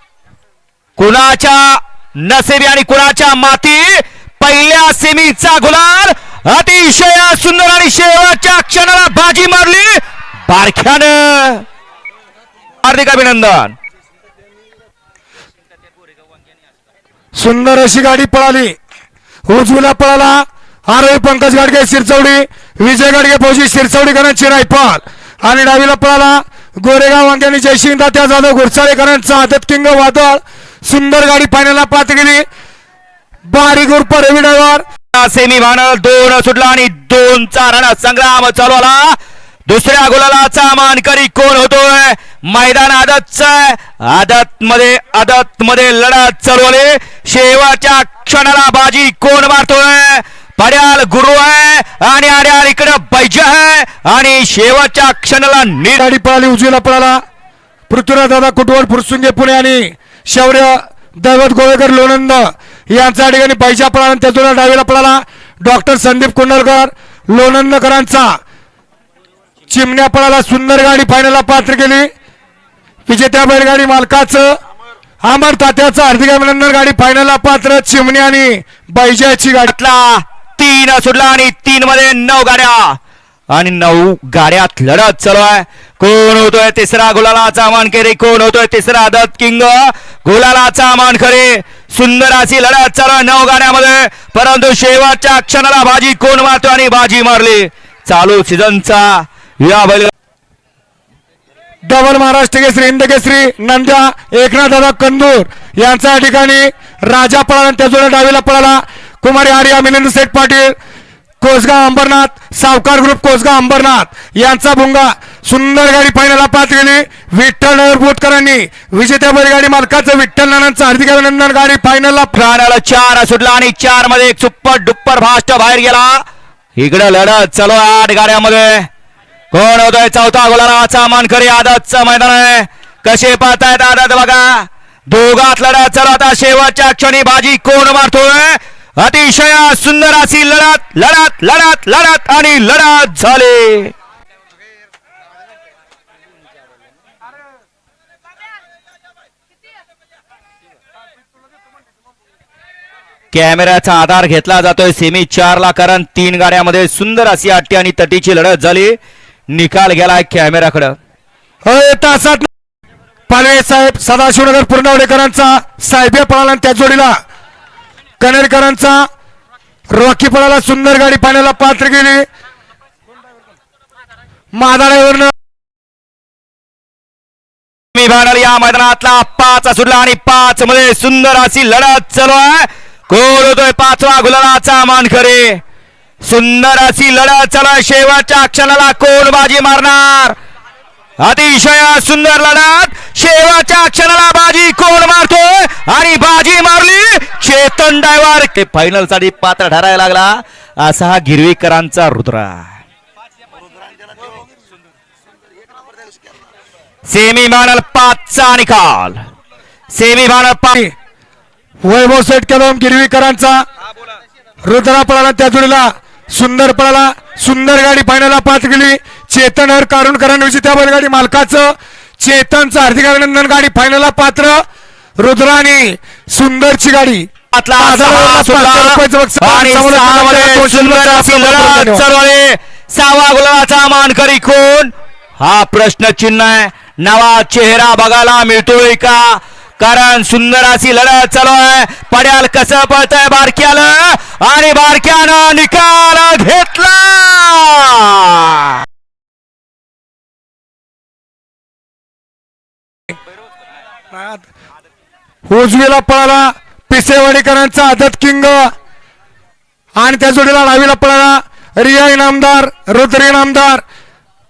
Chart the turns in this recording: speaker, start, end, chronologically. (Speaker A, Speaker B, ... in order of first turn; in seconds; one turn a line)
Speaker A: 1.0-11.6
Speaker A: 12.8-13.7
Speaker B: 17.4-18.7
Speaker B: 19.5-32.4
Speaker B: 33.5-34.8
Speaker A: 35.1-39.2
Speaker A: 39.7-56.0
Speaker B: 56.0-57.2
Speaker B: 57.9-68.4
Speaker B: 69.7-72.1
Speaker B: 73.1-74.5
Speaker B: 75.2-79.7
Speaker A: 79.7-83.0
Speaker A: 83.5-100.1
Speaker B: 101.9-110.8
Speaker B: 111.4-122.4
Speaker A: 122.3-126.2
Speaker A: 126.8-128.9
Speaker A: 129.5-143.9
Speaker A: 153.3-159.0
Speaker A: 159.5-160.9
Speaker B: 161.7-162.5
Speaker B: 163.3-167.1
Speaker B: 168.2-169.0
Speaker B: 169.9-172.2
Speaker B: 174.6-175.3
Speaker A: 177.9-185.6
Speaker A: 186.2-190.4
Speaker A: 191.2-202.7
Speaker A: 207.1-209.2
Speaker A: 209.9-210.8
Speaker B: 211.8-213.6
Speaker B: 214.7-224.6
Speaker B: 225.2-227.3
Speaker A: 227.5-248.8
Speaker B: 227.8-232.1
Speaker B: 254.1-254.4
Speaker B: 255.5-258.7
Speaker B: 260.0-263.8